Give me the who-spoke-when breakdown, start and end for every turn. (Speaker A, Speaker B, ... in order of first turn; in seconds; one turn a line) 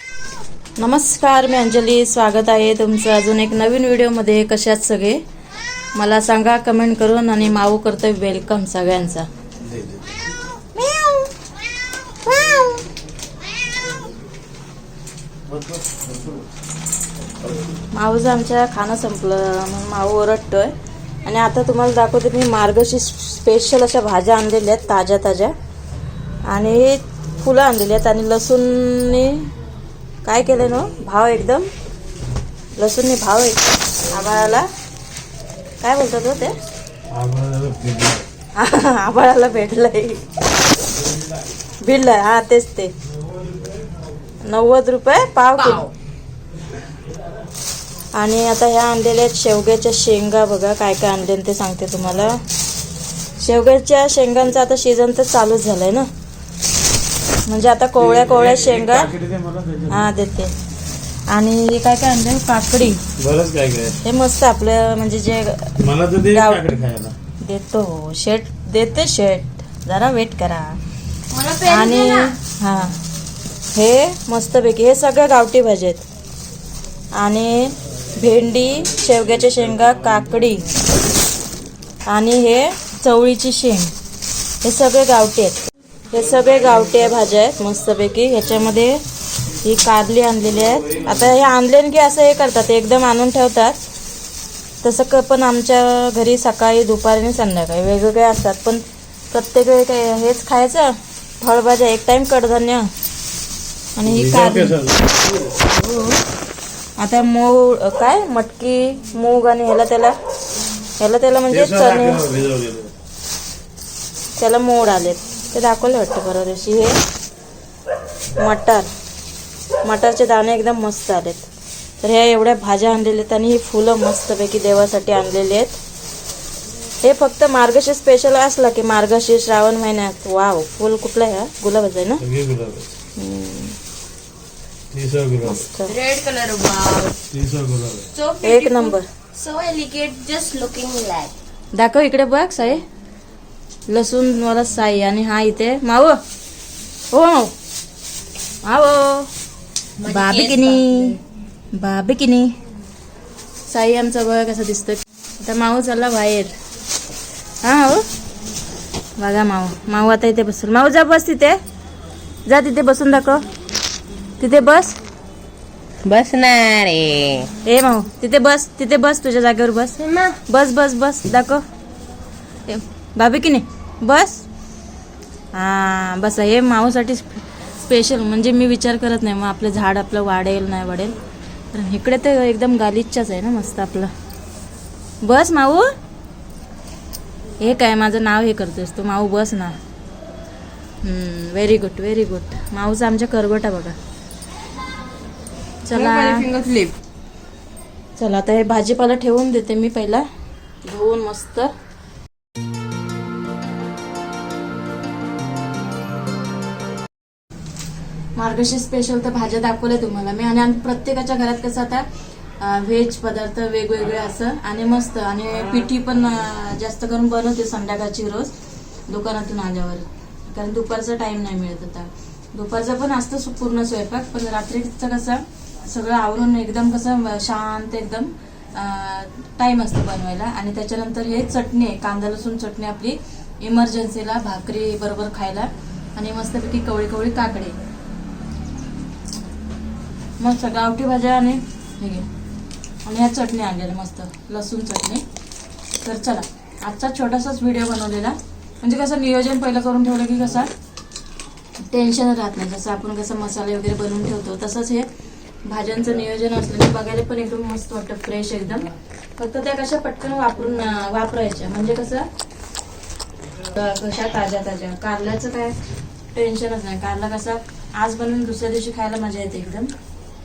Speaker A: 0.8-5.2
Speaker A: 6.0-9.3
Speaker B: 9.6-10.0
Speaker A: 10.8-11.3
Speaker A: 12.2-12.8
Speaker B: 15.5-16.4
Speaker A: 17.9-20.7
Speaker A: 21.2-25.5
Speaker A: 26.5-29.5
Speaker A: 30.2-31.7
Speaker A: 32.8-34.7
Speaker A: 35.8-36.6
Speaker B: 37.1-38.3
Speaker A: 38.6-40.2
Speaker A: 41.8-42.9
Speaker A: 44.5-45.8
Speaker C: 45.5-45.9
Speaker A: 48.2-52.4
Speaker A: 53.4-56.1
Speaker A: 57.5-59.1
Speaker B: 58.0-60.1
Speaker A: 59.9-60.5
Speaker A: 61.3-63.0
Speaker B: 63.2-64.0
Speaker A: 64.0-66.7
Speaker B: 65.8-67.2
Speaker A: 67.4-70.8
Speaker C: 71.3-72.4
Speaker A: 71.7-73.0
Speaker A: 73.7-76.0
Speaker A: 77.2-80.7
Speaker A: 82.1-83.9
Speaker A: 84.6-89.0
Speaker A: 89.6-93.8
Speaker A: 94.8-102.9
Speaker A: 104.0-104.8
Speaker B: 104.0-105.5
Speaker A: 105.7-106.2
Speaker A: 107.0-110.2
Speaker A: 111.0-112.2
Speaker B: 111.5-112.9
Speaker A: 114.4-117.0
Speaker A: 118.4-118.9
Speaker A: 119.8-121.5
Speaker A: 122.0-125.8
Speaker A: 127.0-132.2
Speaker B: 132.2-132.9
Speaker A: 133.2-133.8
Speaker B: 134.9-135.7
Speaker A: 135.4-136.0
Speaker C: 135.9-137.2
Speaker B: 137.3-138.1
Speaker C: 138.1-141.3
Speaker A: 138.4-139.1
Speaker A: 141.7-142.8
Speaker A: 143.9-146.2
Speaker A: 147.1-147.5
Speaker A: 148.6-149.3
Speaker C: 150.0-151.2
Speaker A: 150.0-151.2
Speaker A: 151.7-152.6
Speaker A: 153.7-156.5
Speaker A: 157.6-158.1
Speaker A: 159.2-161.6
Speaker A: 162.5-163.4
Speaker A: 164.4-165.0
Speaker C: 166.0-167.5
Speaker A: 167.6-171.6
Speaker C: 170.0-170.4
Speaker A: 172.7-174.5
Speaker A: 175.5-181.2
Speaker A: 181.7-184.1
Speaker A: 185.2-185.9
Speaker A: 187.6-189.8
Speaker A: 191.0-194.0
Speaker A: 195.9-196.5
Speaker C: 195.9-196.9
Speaker A: 198.2-200.3
Speaker A: 200.8-201.7
Speaker A: 208.4-212.1
Speaker A: 212.6-218.5
Speaker A: 219.1-237.8
Speaker A: 240.4-242.3
Speaker A: 243.1-245.2
Speaker A: 246.0-250.7
Speaker A: 251.9-255.1
Speaker A: 255.7-262.3
Speaker A: 263.6-265.8
Speaker A: 266.3-269.9